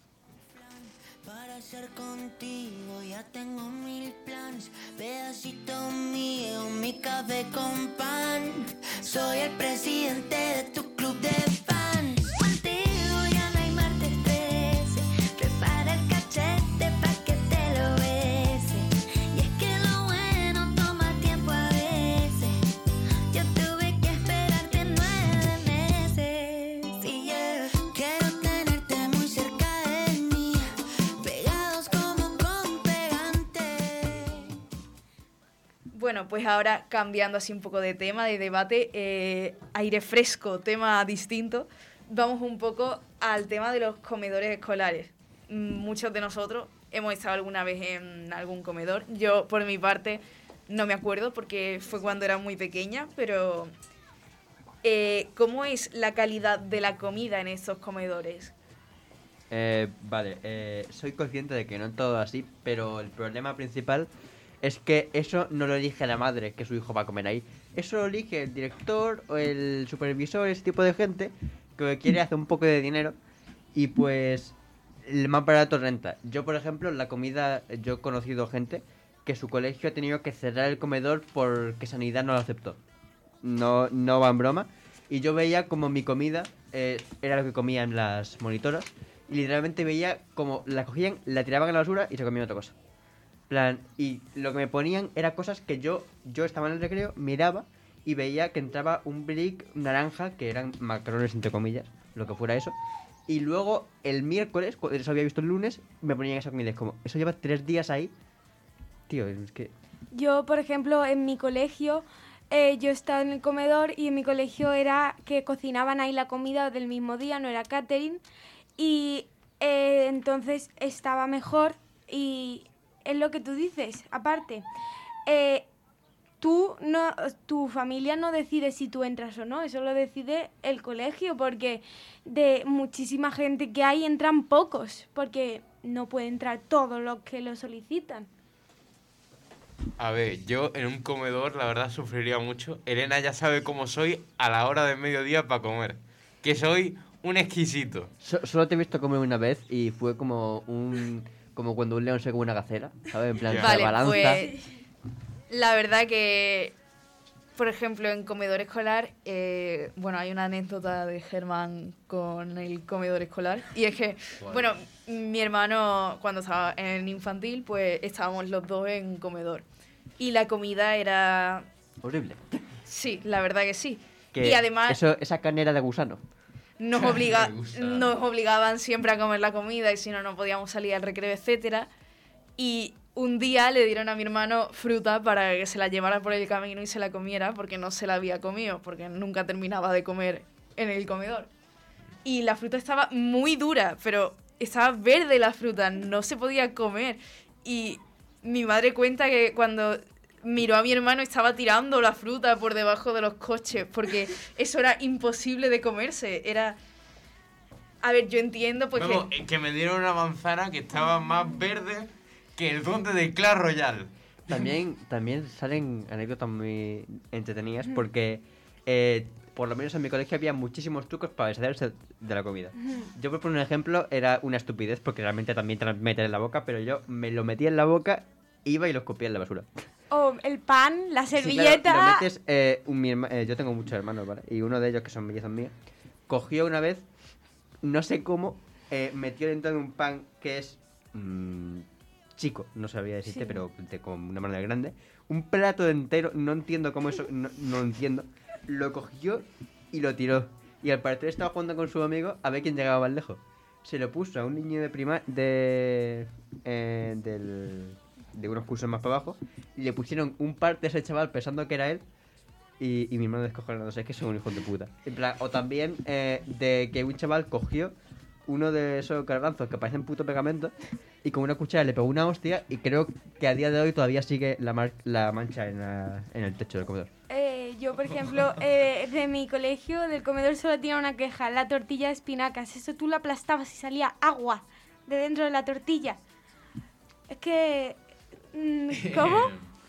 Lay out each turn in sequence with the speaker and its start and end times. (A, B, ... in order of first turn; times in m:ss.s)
0:00.5-0:22.6 A
0:23.3-0:30.6 A
0:31.2-0:34.5 A
0:35.9-0:53.7 B
0:54.8-0:58.5 B
0:59.5-1:04.1 C
1:04.6-1:13.2 C
1:13.7-1:22.8 C
1:23.4-1:32.7 C
1:33.5-1:42.7 C
1:43.3-1:48.1 C
1:49.1-1:49.7 C
1:50.1-1:58.2 D
1:58.8-2:04.6 D
2:05.2-2:05.6 D
2:06.4-2:18.3 D
2:20.0-2:28.1 E
2:28.2-2:34.5 C
2:33.5-2:33.8 E
2:33.6-2:34.5 B
2:34.3-2:34.6 D
2:35.5-2:36.8 B
2:37.6-2:49.6 B
2:50.2-2:51.7 B
2:52.0-2:52.6 C
2:52.8-2:55.0 B
2:54.3-2:56.2 C
2:56.8-3:01.9 B
2:57.0-2:58.1 E
3:02.6-3:11.5 B
3:12.2-3:26.8 B
3:28.0-3:29.2 B
3:29.0-3:34.6 E
3:34.5-3:49.8 C
3:50.1-3:52.3 D
3:51.3-3:55.7 C
3:56.3-3:57.0 C
3:57.8-4:22.0 C
4:03.3-4:03.6 D
4:22.8-4:27.9 C
4:28.4-4:30.7 C
4:31.2-4:37.1 C
4:37.3-4:46.2 D
4:47.3-4:48.0 D
4:48.5-4:49.5 D
4:49.0-4:49.6 E